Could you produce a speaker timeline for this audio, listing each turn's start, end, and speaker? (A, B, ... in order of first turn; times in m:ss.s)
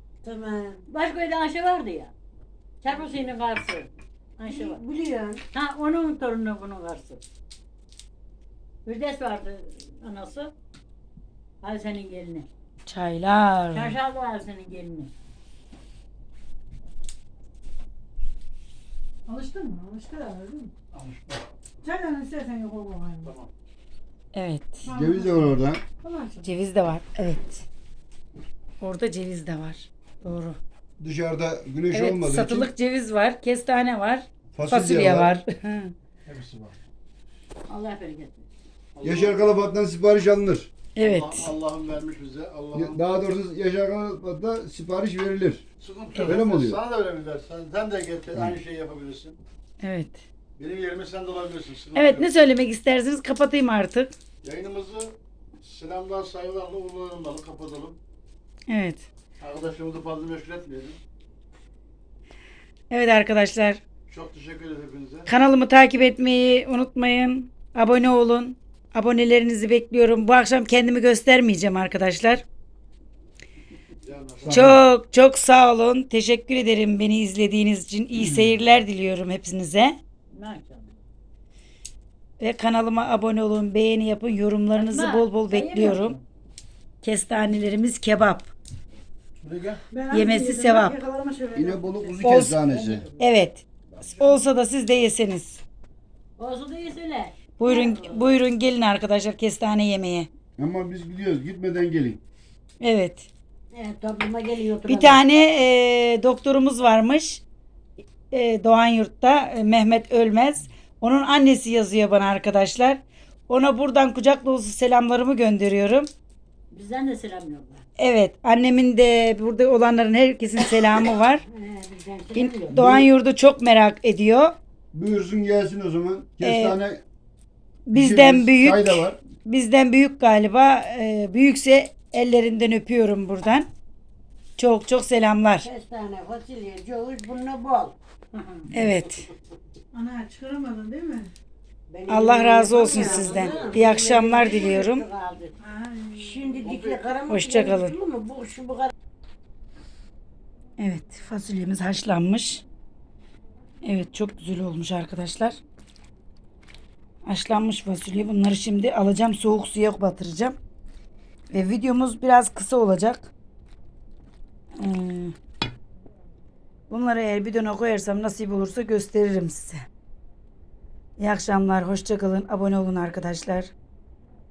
0:00.2-0:00.8 A
0:00.9-0:02.1 B
0:02.8-0:04.8 B
0:04.4-0:05.4 A
0:05.5-0:07.2 B
0:08.8-0:10.5 B
0:11.6-0:12.5 B
0:12.9-0:14.0 C
0:13.7-0:15.1 B
0:19.3-0:20.7 D
0:20.9-0:21.4 E
0:21.8-0:23.3 D
0:23.2-0:23.5 E
0:24.3-0:24.9 C
0:24.8-0:26.5 D
0:24.9-0:25.8 F
0:26.4-0:27.7 C
0:28.8-0:30.6 C
0:31.0-0:32.7 F
0:31.9-0:35.9 C
0:34.5-0:35.3 F
0:36.3-0:36.8 E
0:37.7-0:38.5 B
0:39.0-0:39.4 E
0:39.0-0:40.7 F
0:41.0-0:41.5 C
0:41.0-0:43.0 E
0:42.7-0:45.6 F
0:45.8-0:49.4 E
0:46.2-0:46.8 F
0:49.8-0:50.2 C
0:50.6-0:52.3 E
0:51.9-0:54.1 C
0:54.4-0:58.0 E
0:58.7-0:59.0 C
0:59.4-1:01.0 E
1:02.9-1:03.8 C
1:04.1-1:05.3 E
1:05.3-1:12.4 C
1:14.0-1:14.8 E
1:14.4-1:14.8 F
1:14.5-1:20.0 C
1:20.3-1:21.0 B
1:22.4-1:26.2 C
1:24.7-1:26.2 B
1:27.0-1:28.5 C
1:29.4-1:29.8 E
1:29.9-1:32.4 D
1:30.1-1:31.0 C
1:31.5-1:33.0 F
1:32.2-1:32.6 C
1:32.7-1:33.0 B
1:33.2-1:35.6 C
1:36.4-1:38.3 B
1:37.6-1:40.3 C
1:40.6-1:42.2 F
1:42.8-1:43.3 C
1:43.7-1:45.2 A
1:44.9-1:47.4 C
1:48.3-1:56.1 C
1:56.7-1:57.8 B
1:58.0-2:01.4 C
2:01.4-2:02.8 A
2:02.3-2:04.6 C
2:02.7-2:03.1 F
2:04.9-2:07.0 F
2:06.4-2:06.8 C
2:07.9-2:13.7 C
2:07.9-2:09.2 F
2:14.6-2:15.7 C
2:15.6-2:18.0 A
2:18.3-2:18.7 B
2:18.7-2:19.3 C
2:19.9-2:21.3 D
2:21.9-2:25.6 A
2:22.1-2:25.1 C
2:22.9-2:23.8 E
2:25.6-2:26.7 D
2:26.2-2:28.9 A
2:26.6-2:27.1 E
2:27.3-2:27.9 C
2:30.8-2:32.6 C
2:33.8-2:35.6 C
2:37.2-2:40.6 C
2:41.5-2:43.3 C
2:44.8-2:45.4 C
2:46.9-2:49.8 C
2:51.2-2:53.7 C